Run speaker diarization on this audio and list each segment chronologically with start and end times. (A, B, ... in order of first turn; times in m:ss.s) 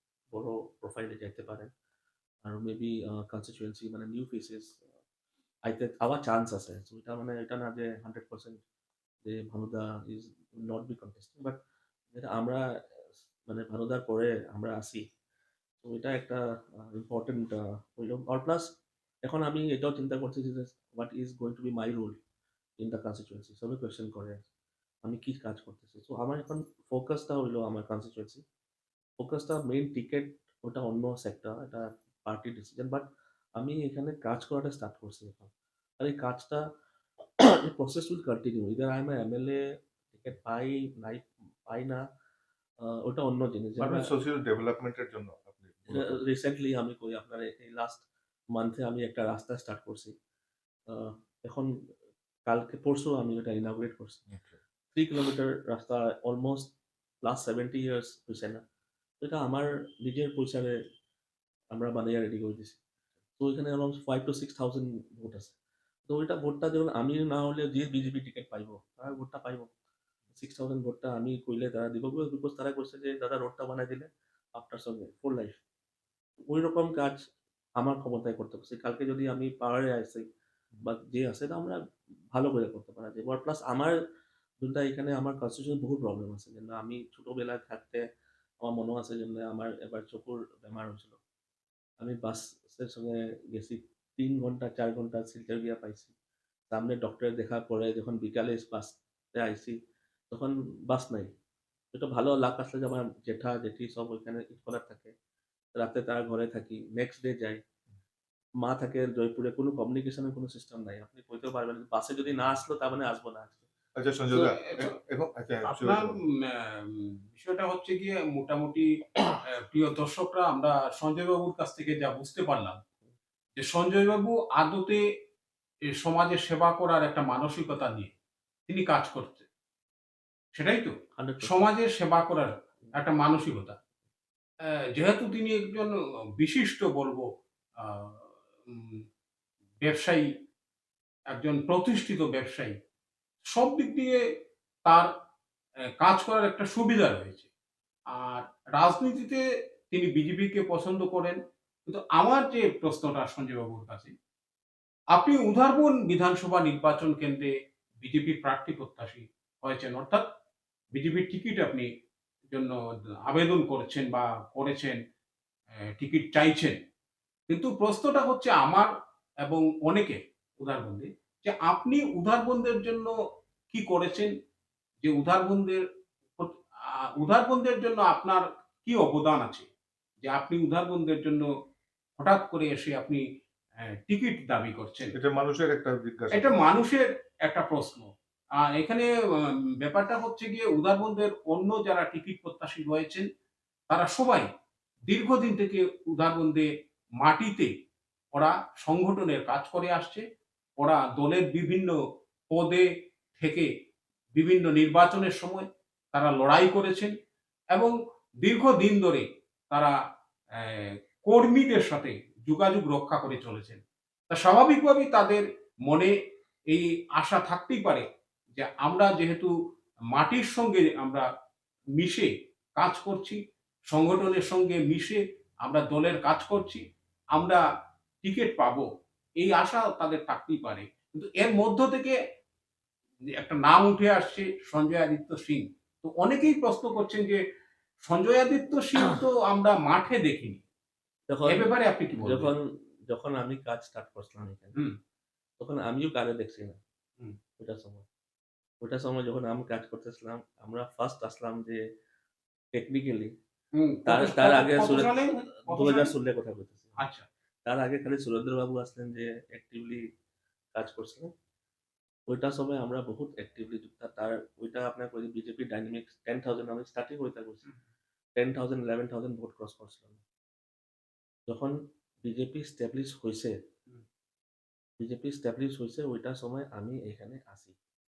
0:00.3-0:01.7 A
0:02.4-0:04.8 A
0:05.7-0:08.6 A
0:09.2-0:11.6 A
0:12.1-0:15.1 A
0:15.8-0:18.7 A
0:19.2-0:22.2 A
0:22.8-0:24.4 A
0:25.0-0:28.4 A
0:29.2-0:36.6 A
0:37.4-0:42.0 A
0:42.8-0:44.1 A
0:43.8-0:46.2 B
0:45.9-0:50.2 A
0:50.9-0:51.9 A
0:52.5-0:54.2 A
0:54.3-0:54.6 B
0:54.9-0:56.7 A
0:57.2-0:58.6 A
0:59.2-1:00.8 A
1:01.7-1:02.8 A
1:03.4-1:05.6 A
1:06.1-1:09.7 A
1:10.4-1:15.6 A
1:16.5-1:20.3 A
1:20.8-1:21.8 A
1:22.3-1:24.0 A
1:24.6-1:28.0 A
1:28.6-1:31.2 A
1:32.0-1:36.1 A
1:36.7-1:39.8 A
1:40.3-1:41.3 A
1:41.9-1:45.2 A
1:45.8-1:47.6 A
1:48.6-1:53.6 A
1:54.0-1:56.2 B
1:54.3-1:55.0 C
1:55.7-2:02.8 C
2:03.6-2:05.1 C
2:05.9-2:08.1 C
2:08.7-2:09.5 C
2:10.6-2:13.8 C
2:11.2-2:11.6 A
2:14.6-2:19.0 C
2:19.8-2:20.3 C
2:21.3-2:22.8 C
2:23.4-2:24.2 C
2:26.0-2:27.5 C
2:28.1-2:34.2 C
2:35.1-2:40.3 C
2:40.9-2:41.9 C
2:42.5-2:45.0 C
2:45.8-2:46.8 C
2:47.5-2:48.9 C
2:49.4-2:53.2 C
2:53.7-2:54.3 C
2:55.0-2:55.8 C
2:56.4-2:59.7 C
3:00.2-3:01.5 C
3:02.2-3:03.2 C
3:03.8-3:05.2 C
3:05.1-3:06.6 B
3:06.3-3:13.3 C
3:13.9-3:14.5 C
3:15.1-3:17.7 C
3:18.3-3:20.2 C
3:20.8-3:22.0 C
3:22.5-3:23.7 C
3:24.3-3:27.2 C
3:27.7-3:30.0 C
3:30.5-3:36.2 C
3:36.7-3:39.5 C
3:40.1-3:41.3 C
3:42.0-3:47.6 C
3:48.2-3:52.2 C
3:53.3-3:57.4 C
3:58.1-4:00.6 C
4:01.3-4:04.8 A
4:01.5-4:02.5 C
4:05.6-4:06.8 A
4:07.6-4:08.1 A
4:08.8-4:11.8 A
4:12.7-4:13.4 A
4:13.8-4:16.1 C
4:14.1-4:17.0 A
4:17.0-4:17.3 C
4:17.7-4:20.1 A
4:20.7-4:21.3 A
4:22.3-4:27.7 A
4:28.4-4:30.2 A
4:31.5-4:33.6 A
4:35.0-4:37.8 A